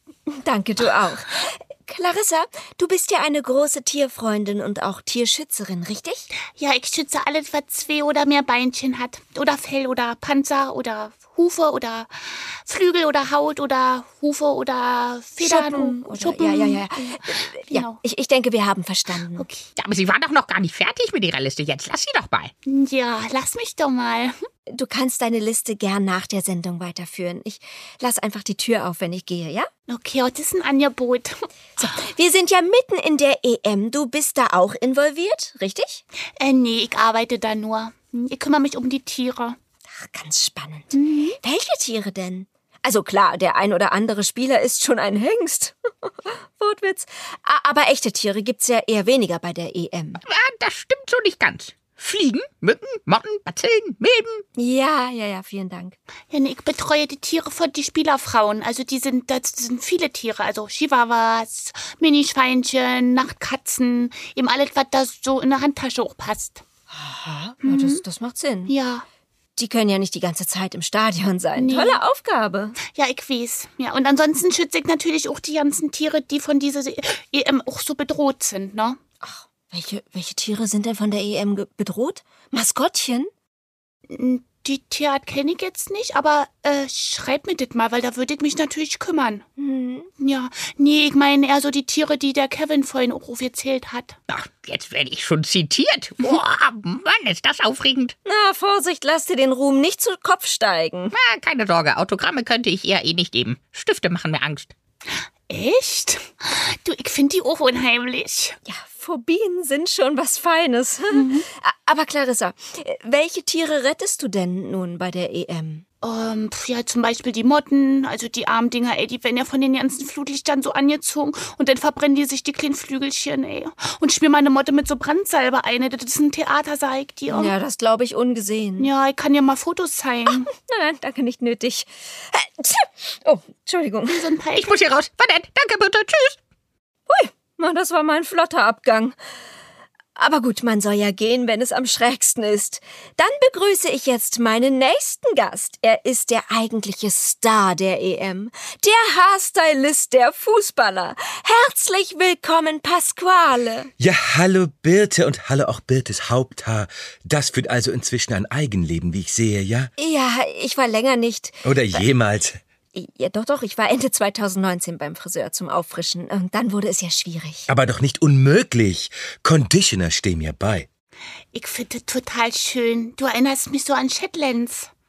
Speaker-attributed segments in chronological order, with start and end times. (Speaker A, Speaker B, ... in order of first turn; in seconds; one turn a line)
Speaker A: 0.3-6.3
Speaker B: 6.6-18.0
Speaker A: 15.4-19.4
Speaker B: 19.4-19.7
Speaker C: 19.8-22.5
Speaker B: 22.6-24.3
Speaker A: 24.7-29.7
Speaker B: 29.9-31.9
Speaker A: 31.8-36.0
Speaker B: 36.4-39.5
Speaker A: 40.0-50.2
Speaker B: 40.9-41.3
Speaker C: 50.2-54.4
Speaker A: 54.6-56.0
Speaker B: 56.3-66.6
Speaker A: 66.9-68.7
Speaker B: 67.6-68.0
Speaker B: 68.7-69.0
Speaker A: 69.5-72.8
Speaker B: 71.5-72.0
Speaker B: 72.9-79.0
Speaker A: 79.2-83.3
Speaker B: 84.1-89.4
Speaker A: 89.6-90.1
Speaker B: 90.2-94.1
Speaker C: 94.3-98.1
Speaker A: 98.2-101.1
Speaker C: 101.1-104.7
Speaker B: 105.5-108.5
Speaker A: 108.7-115.8
Speaker B: 111.1-111.4
Speaker B: 116.0-127.5
Speaker A: 127.3-128.9
Speaker B: 128.8-130.5
Speaker A: 130.5-134.3
Speaker B: 134.1-134.7
Speaker C: 134.6-136.4
Speaker A: 137.1-139.1
Speaker A: 140.2-153.9
Speaker D: 154.0-159.9
Speaker A: 160.0-162.1
Speaker D: 161.6-162.6
Speaker A: 162.9-167.7
Speaker D: 167.7-170.9
Speaker B: 171.5-174.9